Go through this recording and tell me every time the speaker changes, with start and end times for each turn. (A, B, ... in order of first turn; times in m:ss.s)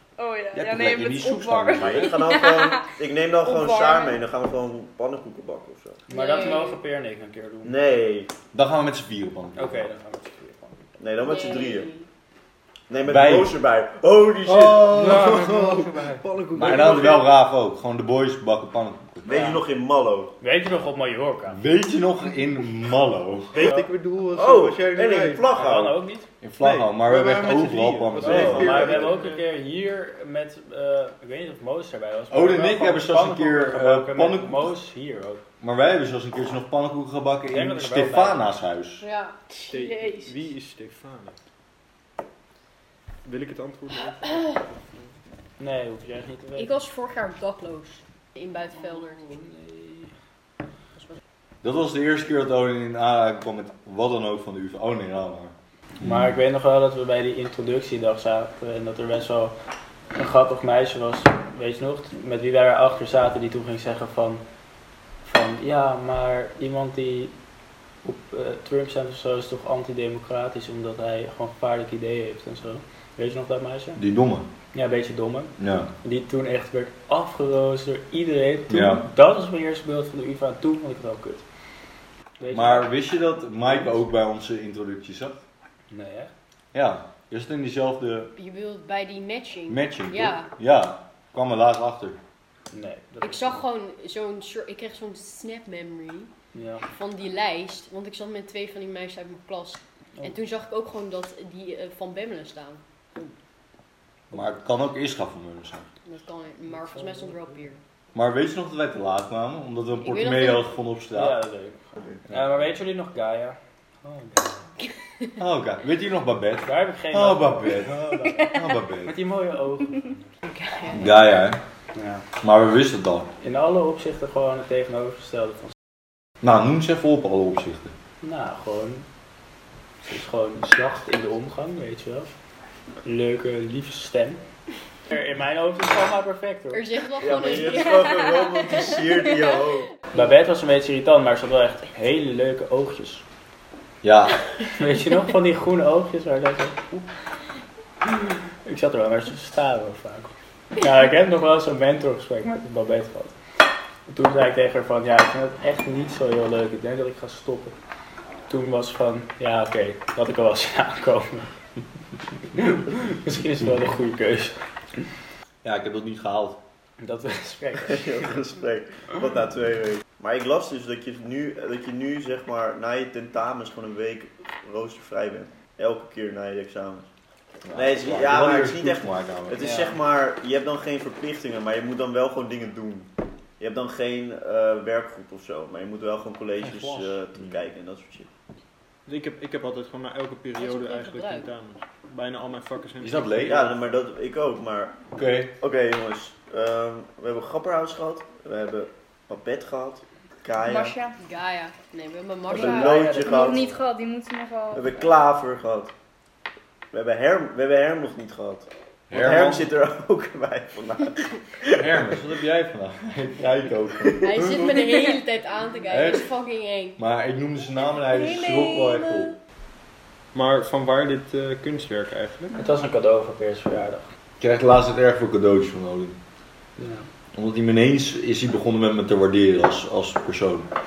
0:00.2-0:02.8 A
0:00.5-0:02.2 B
0:01.7-0:06.0 C
0:03.4-0:04.2 A
0:06.1-0:06.8 D
0:06.1-0:07.7 E
0:07.6-0:08.3 C
0:08.5-0:09.8 B
0:09.6-0:10.8 E
0:11.0-0:11.9 C
0:11.2-0:12.1 D
0:12.9-0:15.2 C
0:13.0-0:13.6 B
0:14.4-0:17.3 F
0:15.5-0:16.2 E
0:16.5-0:19.4 B
0:19.2-0:20.3 C
0:19.3-0:19.6 E
0:20.4-0:21.6 E
0:21.5-0:23.6 B
0:23.5-0:25.5 F
0:23.6-0:23.9 E
0:24.3-0:26.0 C
0:25.5-0:26.3 E
0:26.4-0:28.9 B
0:26.6-0:29.4 F
0:28.2-0:35.4 E
0:28.2-0:29.2 C
0:32.3-0:34.7 B
0:35.6-0:39.0 B
0:37.5-0:38.6 E
0:39.0-0:39.4 D
0:39.6-0:41.4 F
0:39.7-0:40.3 A
0:43.2-0:45.2 F
0:45.6-0:46.8 E
0:46.6-0:49.4 D
0:49.0-0:50.1 E
0:51.6-0:56.3 B
0:56.0-0:59.5 E
1:00.1-1:04.4 E
1:05.2-1:07.3 E
1:08.0-1:14.0 E
1:14.0-1:14.5 B
1:14.7-1:21.4 E
1:15.6-1:15.9 B
1:18.7-1:19.1 B
1:22.4-1:22.9 E
1:22.5-1:25.4 B
1:25.9-1:26.3 E
1:26.7-1:28.3 B
1:28.4-1:30.5 D
1:29.7-1:32.2 B
1:32.7-1:33.6 E
1:33.2-1:36.3 D
1:36.5-1:36.8 E
1:36.9-1:43.2 D
1:44.3-1:45.9 B
1:46.0-1:47.8 D
1:46.7-1:47.4 E
1:48.1-1:51.4 B
1:50.0-1:50.7 D
1:51.1-1:54.7 E
1:52.3-1:52.6 B
1:55.4-1:59.2 B
1:56.6-2:00.3 E
2:00.4-2:01.1 D
2:00.9-2:01.6 B
2:01.9-2:02.2 E
2:02.4-2:03.3 B
2:03.4-2:05.7 E
2:06.4-2:07.9 B
2:08.2-2:09.1 E
2:10.0-2:12.3 E
2:13.0-2:14.4 E
2:15.1-2:16.9 E
2:16.7-2:19.0 D
2:17.2-2:19.9 C
2:20.1-2:23.2 E
2:24.0-2:24.4 B
2:24.8-2:27.0 E
2:28.0-2:33.3 E
2:34.1-2:37.7 E
2:38.5-2:41.5 E
2:42.5-2:44.6 E
2:45.6-2:46.6 B
2:47.0-2:48.3 E
2:47.8-2:57.1 C
2:57.6-2:59.7 B
2:57.7-3:03.1 C
2:59.6-3:00.0 E
3:03.6-3:08.3 C
3:09.0-3:13.6 F
3:10.6-3:11.5 D
3:13.0-3:13.7 B
3:13.5-3:15.0 C
3:15.1-3:15.5 B
3:15.6-3:20.9 C
3:20.6-3:21.2 A
3:21.2-3:23.1 D
3:22.5-3:23.8 C
3:22.5-3:24.8 A
3:22.7-3:23.5 E
3:24.7-3:25.9 C
3:26.9-3:32.2 C
3:29.1-3:29.7 B
3:31.7-3:35.1 B
3:34.2-3:37.0 D
3:35.9-3:36.3 B
3:37.0-3:39.3 B
3:38.6-3:38.9 A
3:40.3-3:42.6 F
3:42.6-3:44.1 E
3:44.4-3:46.2 B
3:46.8-3:47.1 E
3:47.3-3:50.7 B